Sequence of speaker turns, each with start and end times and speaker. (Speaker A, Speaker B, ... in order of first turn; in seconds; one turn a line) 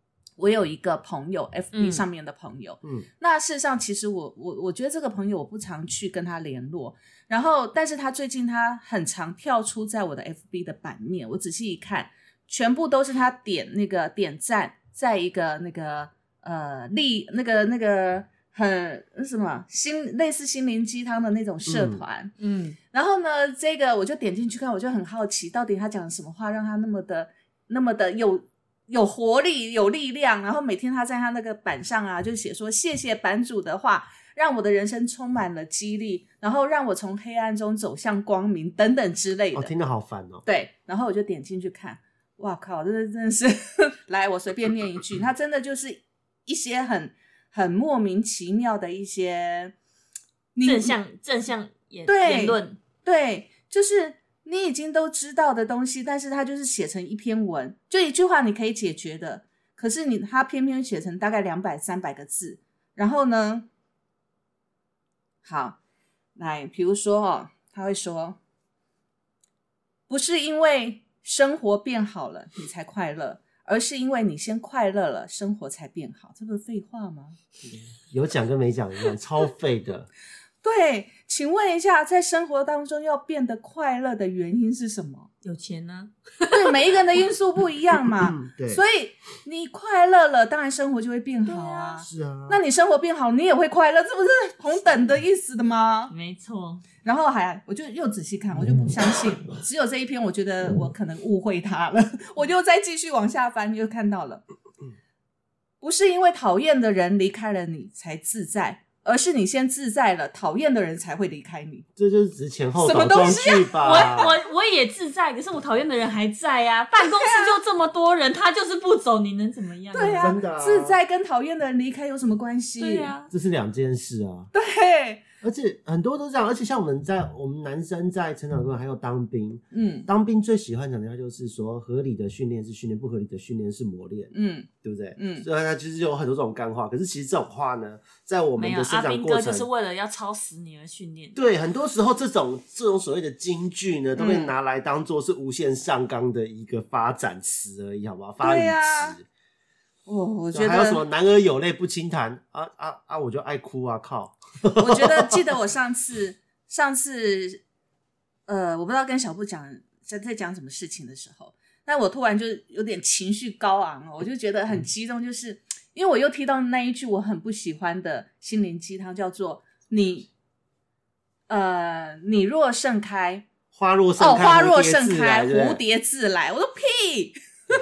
Speaker A: 0.4-22.3
Speaker B: 1.7-2.0
Speaker C: 21.6-22.0
Speaker B: 22.4-22.8
Speaker A: 22.9-39.7
Speaker C: 39.5-40.4
Speaker A: 40.4-49.7
Speaker A: 50.5-50.9
Speaker B: 50.6-52.8
Speaker A: 52.1-63.7
Speaker A: 65.4-65.8
Speaker A: 66.4-68.4
Speaker A: 70.1-77.4
Speaker C: 77.7-80.1
Speaker A: 80.6-85.3
Speaker B: 85.4-86.7
Speaker A: 86.5-96.1
Speaker C: 88.2-88.8
Speaker B: 91.5-92.1
Speaker C: 92.0-92.6
Speaker B: 96.1-96.8
Speaker A: 97.0-104.4
Speaker A: 105.8-111.8
Speaker C: 112.0-114.3
Speaker A: 112.8-114.1
Speaker B: 113.8-120.3
Speaker A: 119.9-123.1
Speaker C: 120.2-121.0
Speaker B: 122.8-123.3
Speaker C: 123.3-124.5
Speaker A: 124.5-125.2
Speaker C: 125.4-134.3
Speaker A: 129.7-130.1
Speaker A: 134.3-135.4
Speaker C: 134.8-139.7
Speaker B: 138.6-141.4
Speaker C: 141.3-149.2
Speaker A: 144.2-144.5
Speaker A: 148.4-149.2
Speaker A: 150.1-151.0
Speaker C: 150.5-155.4
Speaker A: 154.8-157.6
Speaker A: 158.5-170.3
Speaker A: 171.5-173.5
Speaker C: 173.7-175.8
Speaker A: 174.2-177.3